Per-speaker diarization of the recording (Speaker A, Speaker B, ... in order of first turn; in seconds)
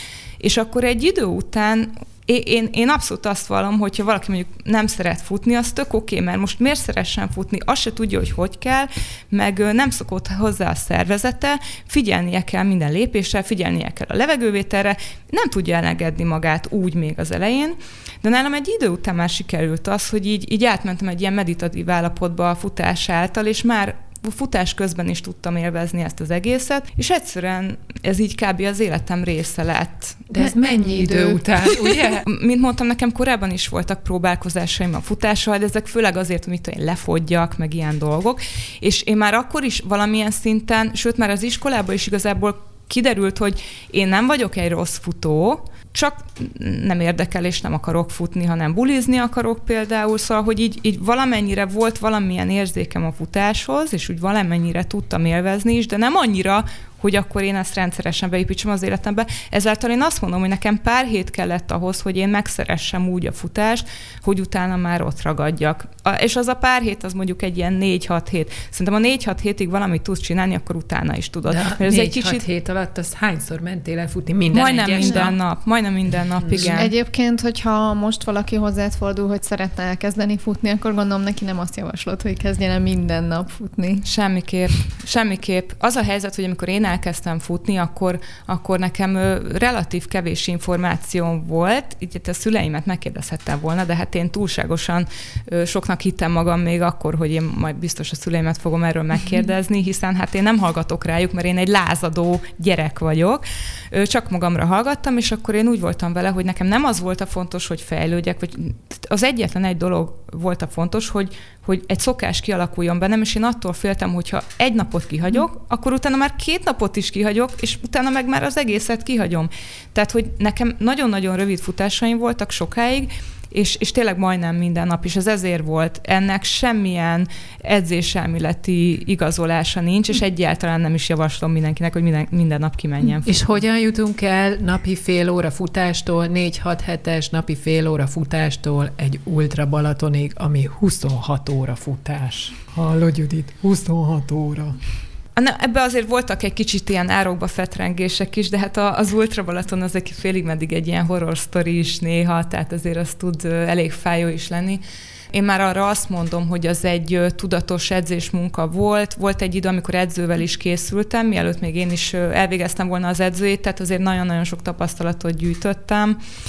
Speaker A: 0.4-30.2, 32.2-72.4, 74.5-76.9, 84.0-133.5, 145.3-154.8, 155.3-166.2
Speaker B: 30.3-32.2, 71.5-75.4, 76.4-76.7, 133.2-144.8
Speaker C: 30.4-31.4, 75.0-75.2, 76.5-84.0